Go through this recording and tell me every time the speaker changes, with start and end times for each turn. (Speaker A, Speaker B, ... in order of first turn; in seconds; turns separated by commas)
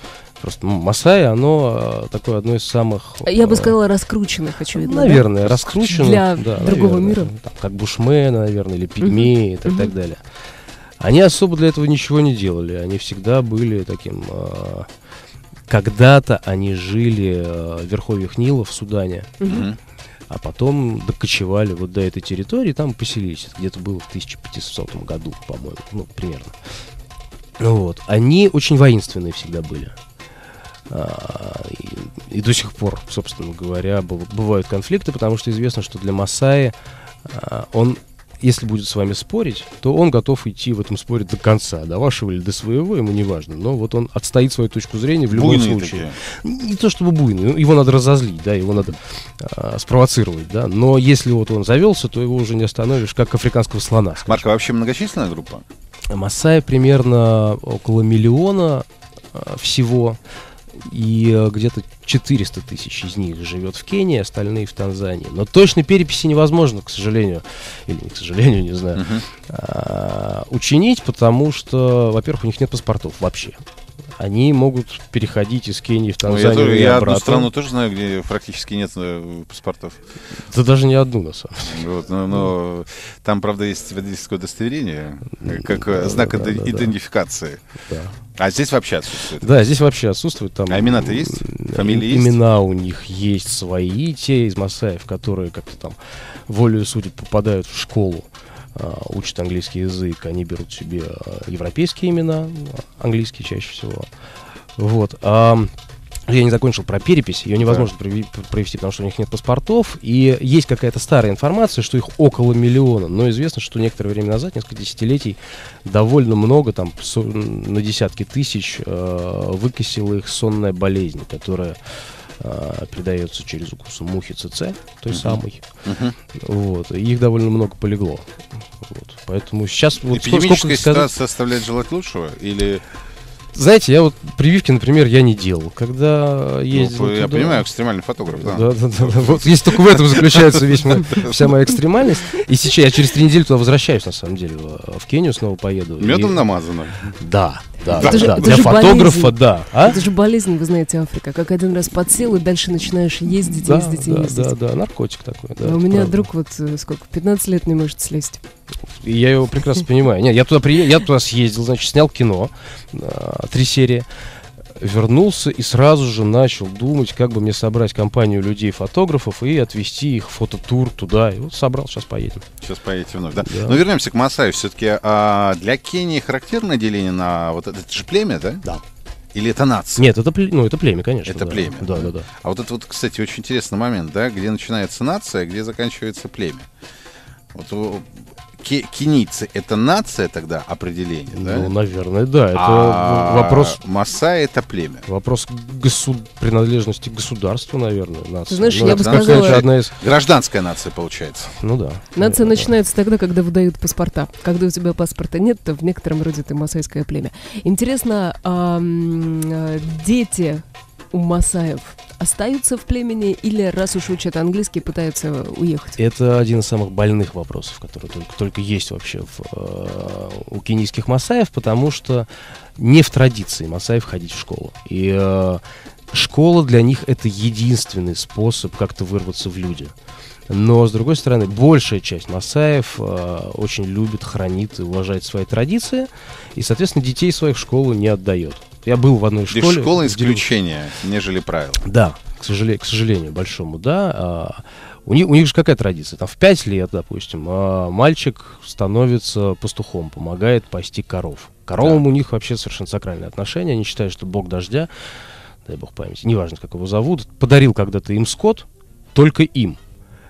Speaker A: 0.4-3.8, Speaker B: 3.2-7.3, Speaker A: 4.8-10.2, Speaker B: 9.0-9.9, Speaker A: 11.0-14.9, Speaker A: 15.7-19.4, Speaker B: 19.4-19.7, Speaker C: 19.4-19.8, Speaker A: 20.3-26.6, Speaker A: 27.6-30.0, Speaker A: 30.9-54.5, Speaker C: 45.3-46.2, Speaker C: 54.3-55.6, Speaker A: 56.1-60.2, Speaker A: 60.7-73.6, Speaker C: 69.0-69.2, Speaker A: 74.2-77.5, Speaker C: 76.3-80.0, Speaker A: 80.5-81.8, Speaker C: 81.7-87.6, Speaker A: 85.4-86.9, Speaker A: 87.9-88.1, Speaker C: 88.4-89.6, Speaker A: 89.4-104.1, Speaker C: 90.7-92.4, Speaker A: 104.8-105.7, Speaker A: 106.3-121.8, Speaker C: 107.6-107.9, Speaker A: 122.4-125.6, Speaker C: 125.1-126.2, Speaker A: 126.3-131.2, Speaker C: 130.1-132.8, Speaker A: 133.5-137.7, Speaker C: 136.7-141.5, Speaker A: 138.3-146.5, Speaker C: 146.0-147.2, Speaker A: 147.2-150.0, Speaker C: 147.9-148.9, Speaker B: 147.9-154.6, Speaker A: 153.5-156.2, Speaker B: 155.6-158.4, Speaker A: 159.0-164.1, Speaker A: 164.8-172.4, Speaker C: 172.6-178.6, Speaker A: 173.4-173.8, Speaker C: 179.3-180.1, Speaker A: 180.0-182.3, Speaker C: 181.3-186.7, Speaker C: 187.5-191.7, Speaker A: 191.3-193.8, Speaker C: 192.5-195.1, Speaker A: 195.1-199.9, Speaker B: 198.5-199.6, Speaker C: 198.8-201.5, Speaker A: 201.6-202.7, Speaker B: 202.2-216.0, Speaker A: 216.0-229.9, Speaker A: 230.5-240.5, Speaker C: 239.5-241.8, Speaker A: 241.8-254.9, Speaker C: 251.8-252.0, Speaker A: 255.7-259.8